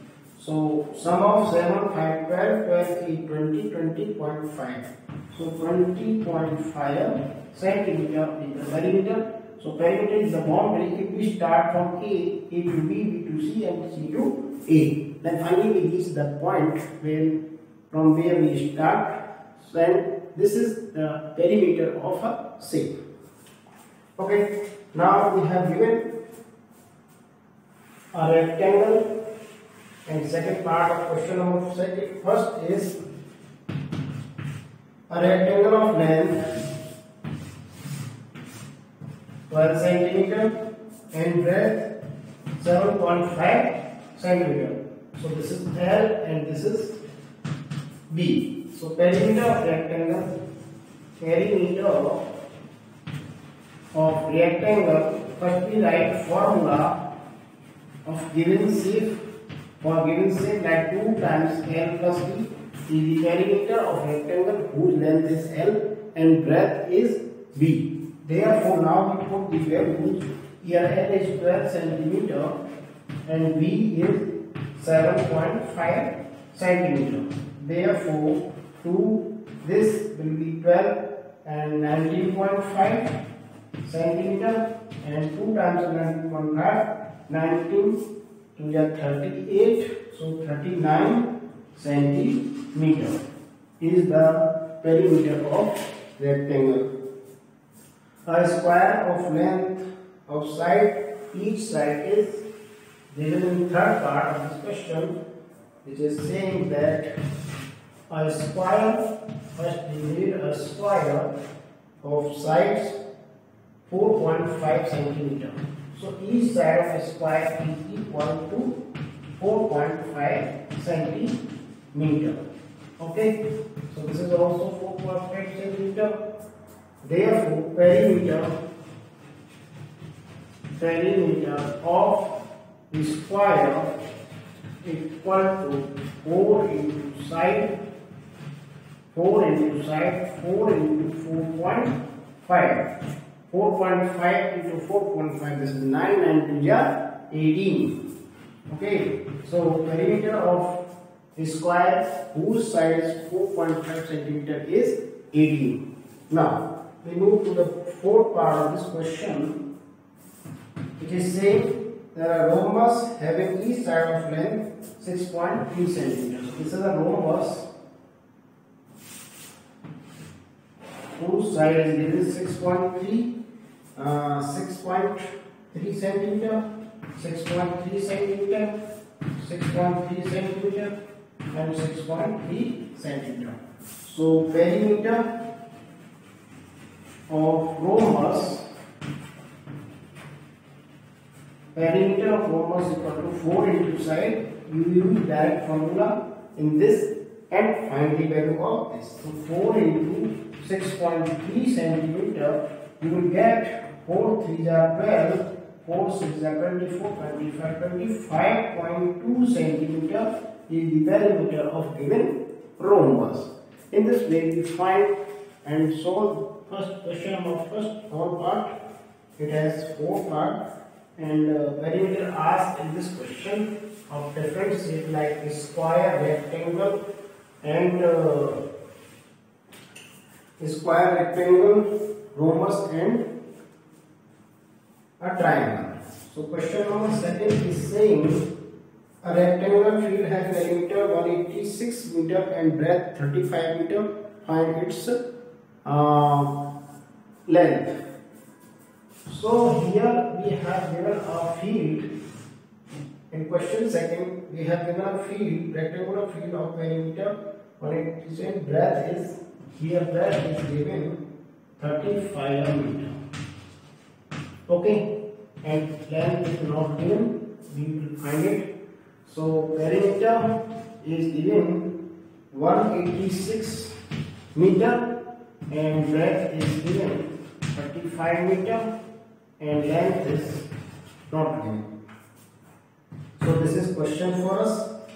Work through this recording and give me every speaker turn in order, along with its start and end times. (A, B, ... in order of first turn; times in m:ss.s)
0:00.4-0:23.0 A
0:24.2-0:26.0 A
0:28.1-0:29.0 A
0:30.0-0:33.0 A
0:35.1-0:36.4 A
0:39.5-0:40.5 A
0:41.1-0:41.9 A
0:42.6-0:47.0 A
0:48.1-0:50.3 A
0:51.2-0:52.2 A
0:53.9-0:57.0 A
0:58.0-0:59.2 A
0:59.8-1:12.6 A
1:13.2-1:14.2 A
1:14.8-1:23.1 A
1:23.8-1:28.0 A
1:28.6-1:33.2 A
1:33.8-1:36.9 A
1:38.2-1:42.4 A
1:43.1-1:45.2 A
1:45.8-1:47.1 A
1:48.1-1:49.0 A
1:49.5-1:51.3 A
1:52.0-1:53.0 A
1:53.8-1:58.8 A
1:59.4-2:01.4 A
2:01.9-2:02.4 A
2:03.0-2:06.1 A
2:07.0-2:08.6 A
2:10.8-2:12.3 A
2:12.9-2:13.9 A
2:14.8-2:17.7 A
2:19.1-2:22.9 A
2:23.5-2:28.0 A
2:28.7-2:30.8 A
2:31.3-2:39.6 A
2:41.0-2:47.7 A
2:51.2-2:53.3 A
2:54.0-2:56.6 A
2:57.2-2:58.7 A
2:59.4-3:00.9 A
3:01.5-3:05.3 A
3:07.3-3:08.7 A
3:11.7-3:35.1 A
3:35.6-3:38.7 A
3:39.4-3:40.6 A
3:41.2-3:47.0 A
3:47.6-3:48.6 A
3:50.6-3:53.2 A
3:55.2-3:58.4 A
3:59.2-4:05.2 A
4:05.8-4:06.6 A
4:07.5-4:08.0 A
4:09.2-4:12.1 A
4:13.3-4:21.2 A
4:21.8-4:23.2 A
4:24.7-4:25.1 A
4:25.6-4:28.7 A
4:29.2-4:31.9 A
4:32.5-4:33.9 A
4:34.5-4:35.0 A
4:35.7-4:38.9 A
4:39.6-4:40.7 A
4:41.3-4:41.9 A
4:43.4-4:44.9 A